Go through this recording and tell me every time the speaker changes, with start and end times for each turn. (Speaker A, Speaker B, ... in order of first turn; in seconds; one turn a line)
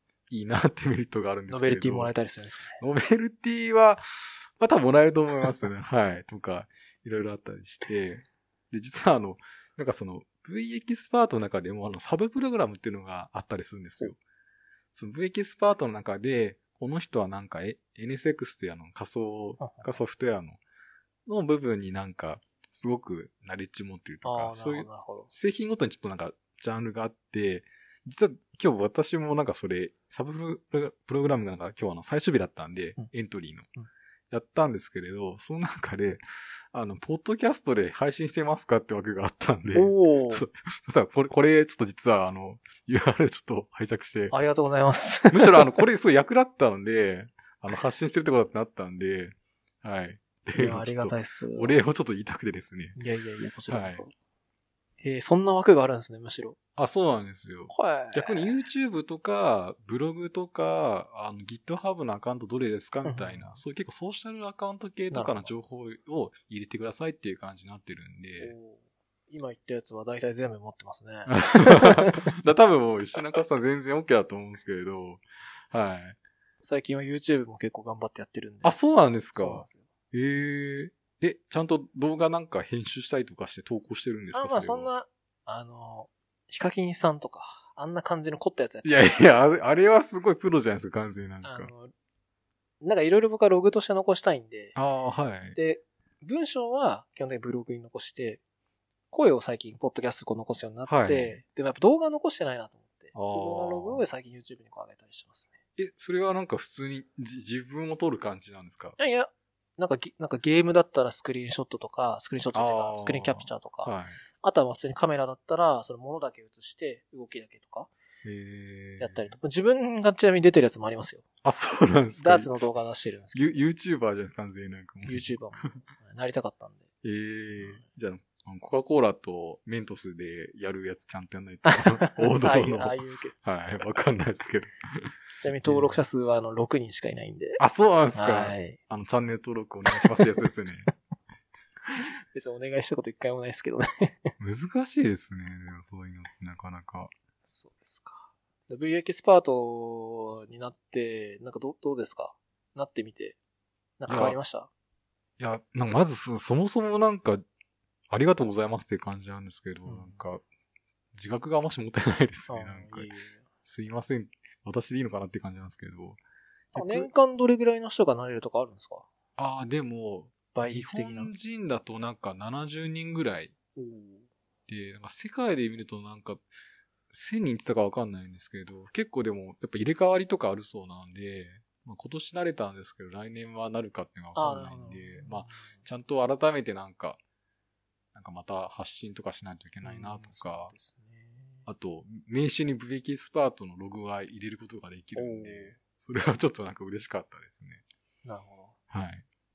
Speaker A: 0.3-2.1
Speaker B: 1.5-2.8
Speaker A: 2.8-4.0
Speaker A: 4.6-14.2
Speaker A: 14.9-20.6
Speaker B: 19.6-20.0
Speaker A: 21.2-33.7
Speaker B: 24.2-25.3
Speaker A: 34.3-44.3
Speaker B: 39.7-40.5
Speaker B: 44.3-45.8
Speaker A: 45.3-53.0
Speaker B: 50.5-51.7
Speaker B: 53.0-54.1
Speaker A: 53.7-54.0
Speaker B: 55.0-56.6
Speaker A: 56.8-68.5
Speaker B: 57.7-58.6
Speaker B: 63.0-63.6
Speaker B: 65.1-65.5
Speaker B: 68.4-72.3
Speaker A: 71.3-76.2
Speaker B: 76.6-78.8
Speaker A: 78.6-84.9
Speaker B: 79.3-79.8
Speaker B: 84.3-89.2
Speaker A: 88.8-91.7
Speaker B: 91.4-91.9
Speaker B: 92.8-94.8
Speaker A: 94.7-95.6
Speaker B: 95.5-98.4
Speaker B: 99.1-105.6
Speaker A: 100.9-101.4
Speaker A: 103.1-104.0
Speaker A: 105.8-109.0
Speaker B: 109.0-117.9
Speaker A: 112.5-114.2
Speaker A: 118.2-119.3
Speaker B: 119.0-121.2
Speaker A: 121.4-122.5
Speaker B: 122.2-123.6
Speaker A: 123.3-125.3
Speaker B: 125.0-126.8
Speaker A: 127.0-135.1
Speaker B: 127.6-127.8
Speaker B: 131.6-133.3
Speaker B: 135.4-137.6
Speaker A: 135.7-136.0
Speaker A: 137.6-140.9
Speaker B: 138.1-138.8
Speaker B: 139.9-140.2
Speaker B: 141.8-144.3
Speaker A: 144.4-147.1
Speaker B: 147.5-153.4
Speaker B: 154.0-154.7
Speaker A: 154.1-154.4
Speaker A: 155.4-157.4
Speaker A: 158.1-160.4
Speaker B: 159.8-160.2
Speaker A: 161.1-163.1
Speaker B: 162.5-163.4
Speaker A: 163.6-166.2
Speaker A: 166.7-167.1
Speaker B: 166.7-169.1
Speaker A: 169.4-173.5
Speaker B: 170.5-171.3
Speaker B: 173.8-174.3
Speaker A: 174.7-176.5
Speaker A: 177.1-187.2
Speaker B: 184.3-185.8
Speaker A: 188.1-190.7
Speaker B: 189.8-191.7
Speaker A: 191.7-197.8
Speaker B: 195.1-195.8
Speaker B: 198.2-198.7
Speaker A: 198.9-199.2